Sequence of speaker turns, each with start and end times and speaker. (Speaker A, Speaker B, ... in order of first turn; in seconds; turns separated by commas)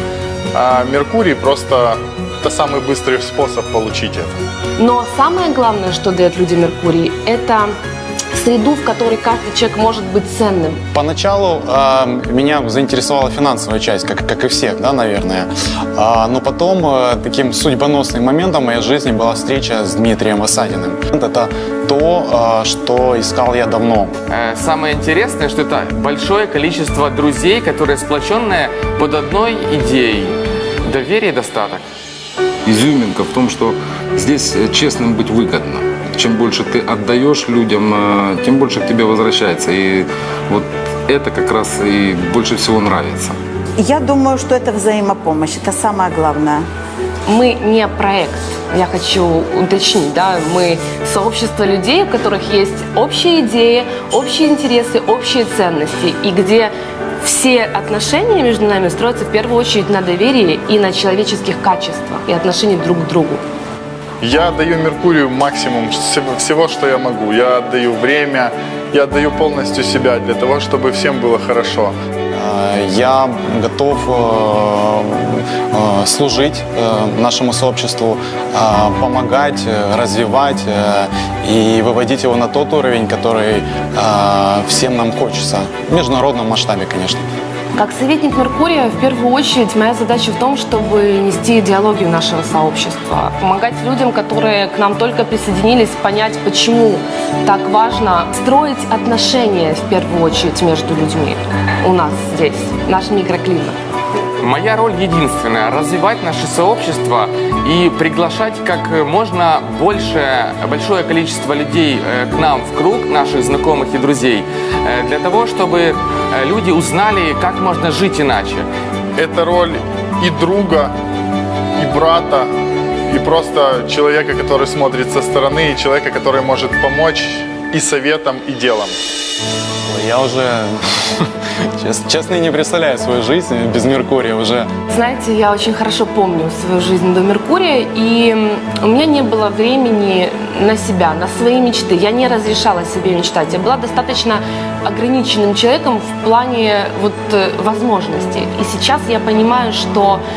Speaker A: 0.5-4.4, Speaker B: 4.8-7.7, Speaker B: 8.3-10.8, Speaker C: 10.9-24.1, Speaker D: 24.3-31.8, Speaker E: 32.7-43.4, Speaker F: 43.8-46.7, Speaker B: 47.3-63.4, Speaker A: 64.2-72.0, Speaker C: 72.3-87.2, Speaker B: 87.8-103.8, Speaker D: 104.4-118.7, Speaker A: 119.2-120.9, Speaker A: 121.8-122.5, Speaker A: 123.1-129.0, Speaker C: 129.9-134.7, Speaker B: 134.9-150.2